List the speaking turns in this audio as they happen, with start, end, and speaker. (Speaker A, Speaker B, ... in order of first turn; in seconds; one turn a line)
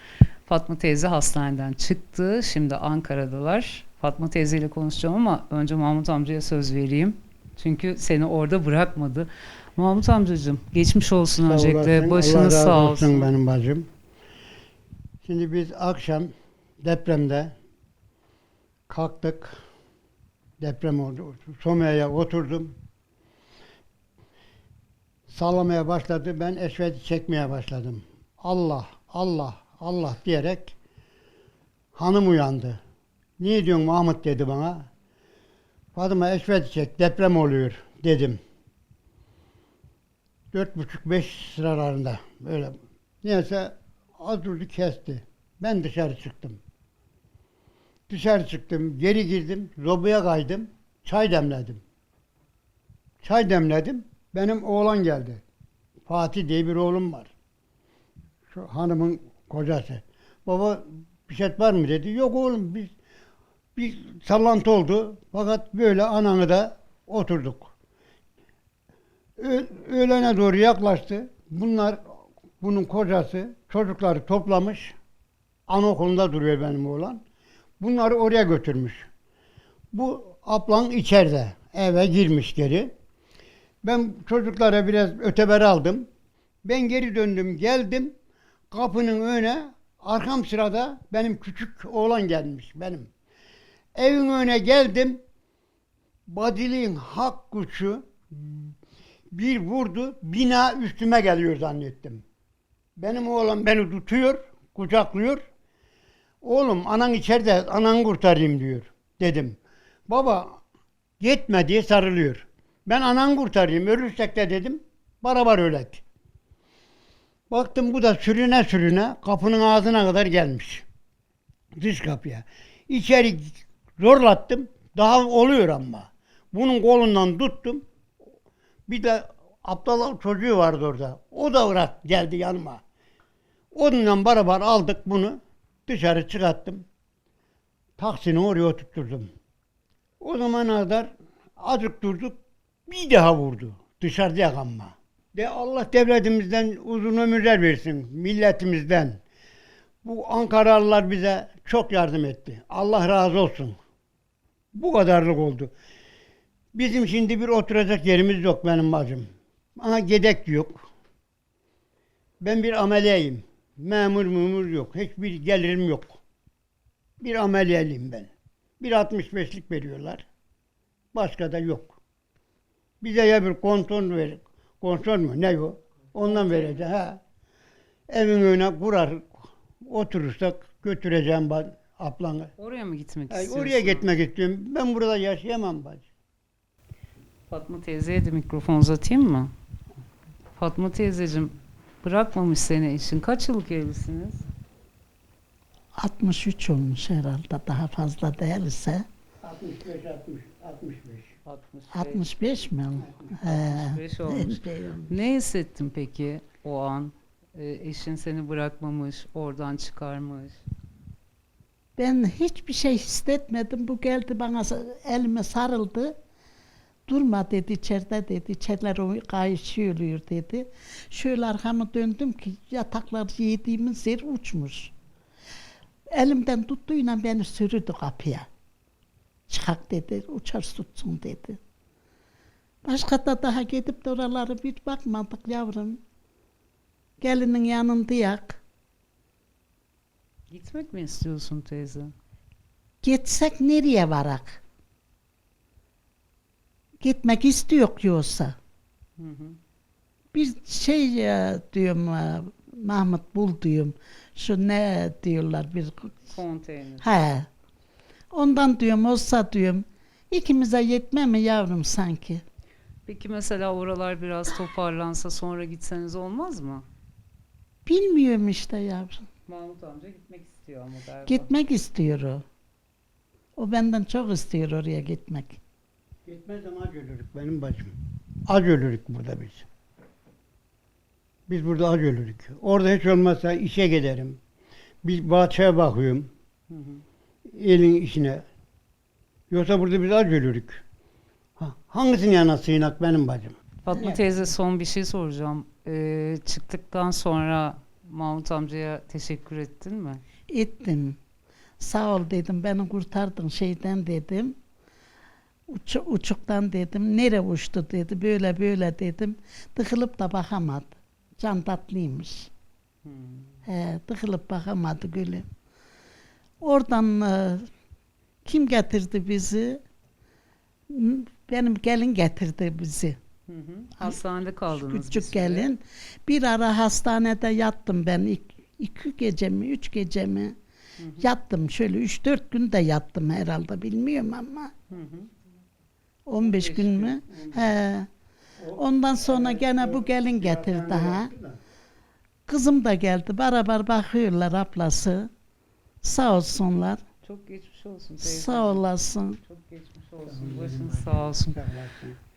Speaker A: 0.5-13.3
Speaker B: 11.4-13.9
Speaker B: 15.2-16.3
Speaker B: 16.8-17.6
Speaker B: 18.9-19.6
Speaker B: 20.6-22.8
Speaker B: 25.3-30.7
Speaker B: 31.9-32.8
Speaker B: 33.4-34.9
Speaker B: 36.0-38.4
Speaker B: 40.5-46.6
Speaker B: 48.1-51.8
Speaker B: 53.2-55.4
Speaker B: 56.1-57.3
Speaker B: 58.5-62.9
Speaker B: 63.8-67.7
Speaker B: 69.4-72.0
Speaker B: 72.6-74.9
Speaker B: 75.7-77.2
Speaker B: 77.8-79.1
Speaker B: 79.9-82.9
Speaker B: 83.8-86.1
Speaker B: 86.6-88.1
Speaker B: 88.7-93.1
Speaker B: 93.9-95.2
Speaker B: 96.3-98.7
Speaker B: 99.3-102.2
Speaker B: 103.0-105.4
Speaker B: 106.4-110.6
Speaker B: 111.2-116.0
Speaker B: 117.5-120.8
Speaker B: 121.8-127.8
Speaker B: 128.9-132.8
Speaker B: 133.7-136.8
Speaker B: 138.0-139.3
Speaker B: 140.2-149.2
Speaker B: 150.0-153.8
Speaker B: 154.8-155.7
Speaker B: 156.8-160.8
Speaker B: 162.4-166.2
Speaker B: 167.2-170.2
Speaker B: 171.1-172.0
Speaker B: 173.0-177.2
Speaker A: 176.2-176.8
Speaker B: 178.1-182.5
Speaker A: 182.6-184.1
Speaker B: 183.3-186.1
Speaker A: 187.5-189.5
Speaker A: 190.6-194.4
Speaker C: 196.0-199.1
Speaker B: 199.4-201.3
Speaker A: 201.4-202.4
Speaker C: 201.9-205.2
Speaker B: 203.0-203.3
Speaker A: 203.4-210.6
Speaker C: 212.0-216.1
Speaker C: 217.1-224.9
Speaker C: 226.1-228.5
Speaker C: 229.5-231.6
Speaker C: 232.8-236.0
Speaker C: 237.2-238.6
Speaker A: 240.5-242.1
Speaker C: 243.0-244.6
Speaker C: 247.0-248.6
Speaker A: 249.2-249.6
Speaker C: 250.3-256.3
Speaker A: 256.3-257.1
Speaker C: 257.0-257.5
Speaker C: 258.3-262.4
Speaker A: 263.1-266.9
Speaker C: 267.9-269.2
Speaker A: 269.5-271.5
Speaker C: 271.2-272.4
Speaker C: 273.6-275.6
Speaker B: 276.3-277.9
Speaker B: 278.4-279.7
Speaker B: 281.5-284.4
Speaker B: 285.0-286.3
Speaker A: 286.7-287.0
Speaker B: 287.5-288.4
Speaker B: 289.5-290.8
Speaker B: 291.6-293.6
Speaker A: 293.8-300.2
Speaker C: 293.9-294.2
Speaker C: 300.5-301.2
Speaker C: 301.8-304.6
Speaker C: 305.7-312.5
Speaker A: 313.1-313.6
Speaker C: 313.6-315.4
Speaker C: 316.6-317.6
Speaker C: 318.4-319.8
Speaker C: 320.9-323.2
Speaker A: 323.5-325.7
Speaker C: 324.0-330.6
Speaker A: 331.0-331.2
Speaker C: 331.2-334.7
Speaker A: 334.9-335.3
Speaker C: 336.3-338.1
Speaker A: 336.4-337.1
Speaker B: 337.3-337.6
Speaker B: 338.6-341.6
Speaker C: 338.8-341.3
Speaker C: 342.5-345.3
Speaker C: 346.0-347.0
Speaker A: 347.2-348.9
Speaker C: 348.2-349.4
Speaker A: 349.4-351.6
Speaker B: 350.2-352.2